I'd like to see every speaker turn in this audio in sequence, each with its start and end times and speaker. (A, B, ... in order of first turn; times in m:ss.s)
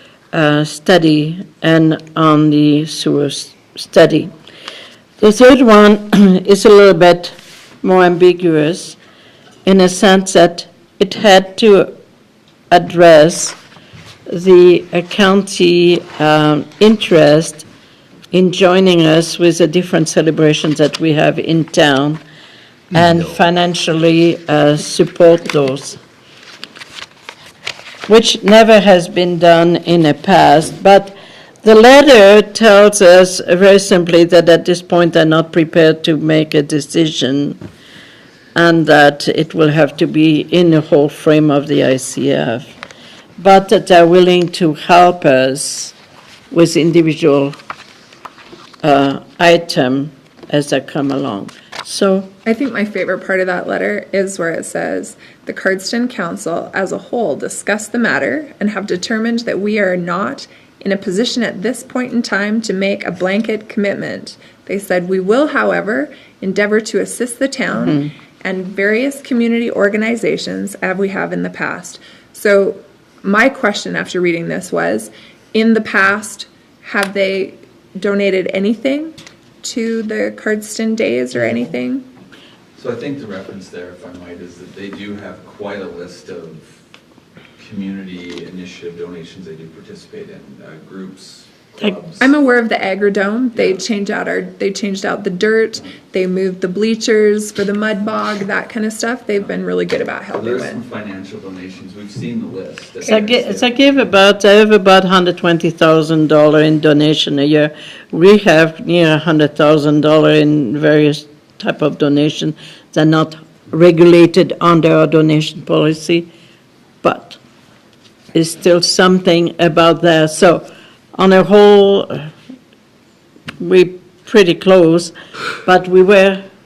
0:00.3-0:04.3 A
0:05.2-0:09.0 A
0:09.6-0:11.9 A
0:12.7-0:13.6 A
0:14.3-0:17.6 A
0:18.3-0:22.2 A
0:22.9-0:26.0 A
0:28.1-0:37.6 A
0:38.5-0:42.7 A
0:43.4-0:45.9 A
0:46.5-0:47.6 A
0:48.8-0:52.3 A
0:52.4-1:22.1 B
1:07.7-1:08.1 A
1:22.8-1:26.8 C
1:27.6-1:32.3 C
1:32.2-1:40.8 B
1:33.5-1:33.8 C
1:40.3-1:43.7 C
1:43.0-1:56.3 A
1:57.0-1:57.4 A
1:58.3-2:02.3 A
2:03.6-2:06.4 A